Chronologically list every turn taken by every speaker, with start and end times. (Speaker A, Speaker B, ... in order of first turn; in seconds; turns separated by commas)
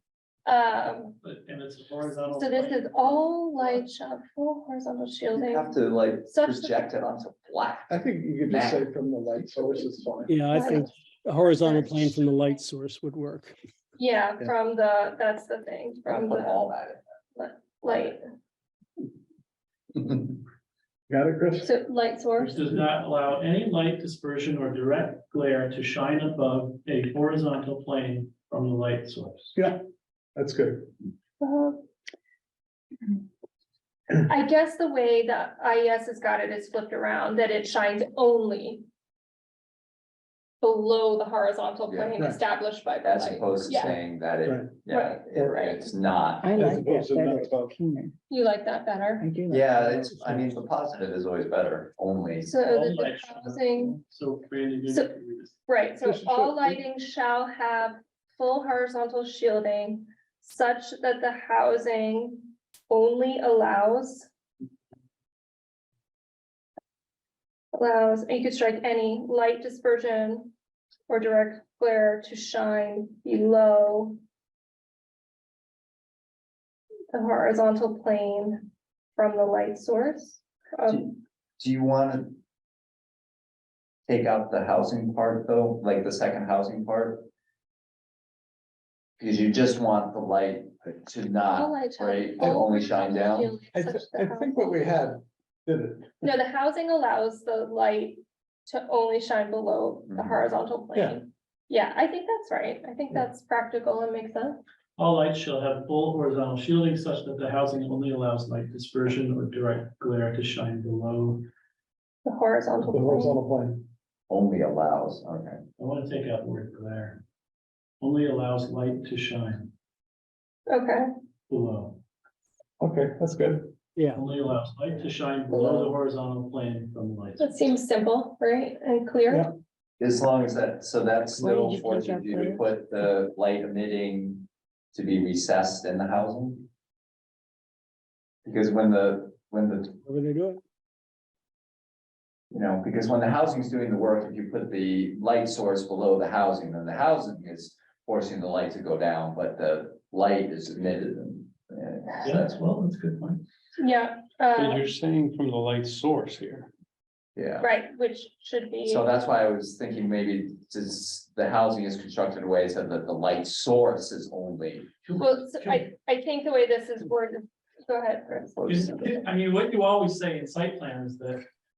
Speaker A: 0.5-1.1, Speaker B: 1.2-3.3, Speaker A: 2.3-6.8, Speaker C: 5.3-7.9, Speaker D: 7.9-10.4, Speaker C: 8.4-8.8, Speaker E: 10.3-13.5, Speaker A: 10.5-12.5, Speaker A: 14.0-16.7, Speaker C: 16.1-17.0, Speaker A: 17.3-18.2, Speaker D: 21.1-21.7, Speaker A: 21.6-22.6, Speaker B: 22.4-29.6, Speaker D: 30.4-30.9, Speaker A: 31.4-31.8, Speaker A: 34.2-38.9, Speaker A: 40.6-44.0, Speaker C: 41.9-42.2, Speaker C: 43.0-46.5, Speaker A: 44.9-45.9, Speaker F: 46.4-48.1, Speaker D: 46.5-47.7, Speaker A: 48.3-49.3, Speaker F: 49.2-50.6, Speaker C: 49.5-52.5, Speaker A: 52.4-54.0, Speaker B: 52.7-55.6, Speaker A: 55.7-64.3, Speaker D: 56.0-56.8, Speaker A: 67.7-70.5, Speaker A: 71.1-74.2, Speaker A: 77.1-81.2, Speaker C: 80.9-82.4, Speaker C: 84.1-87.3, Speaker C: 89.2-93.5, Speaker A: 91.5-94.8, Speaker D: 93.7-96.2, Speaker A: 96.2-104.6, Speaker C: 100.1-100.4, Speaker D: 100.9-101.2, Speaker B: 105.0-111.5, Speaker A: 112.2-113.4, Speaker D: 112.9-113.8, Speaker C: 114.3-115.6, Speaker B: 115.8-117.2, Speaker B: 118.0-119.7, Speaker A: 120.7-121.1, Speaker B: 121.5-122.0, Speaker D: 122.8-123.7, Speaker E: 124.0-124.2, Speaker B: 124.1-127.5, Speaker D: 125.5-125.9, Speaker A: 127.4-129.5, Speaker C: 130.0-136.7, Speaker F: 131.4-132.7, Speaker C: 138.4-139.9, Speaker E: 140.0-140.6, Speaker C: 142.5-152.6, Speaker B: 152.2-153.4, Speaker A: 153.8-154.8, Speaker G: 154.6-156.7, Speaker C: 157.3-157.7, Speaker A: 157.6-159.1, Speaker C: 158.8-164.9, Speaker B: 165.0-165.8, Speaker A: 165.2-168.8, Speaker C: 168.5-169.1, Speaker B: 168.7-171.4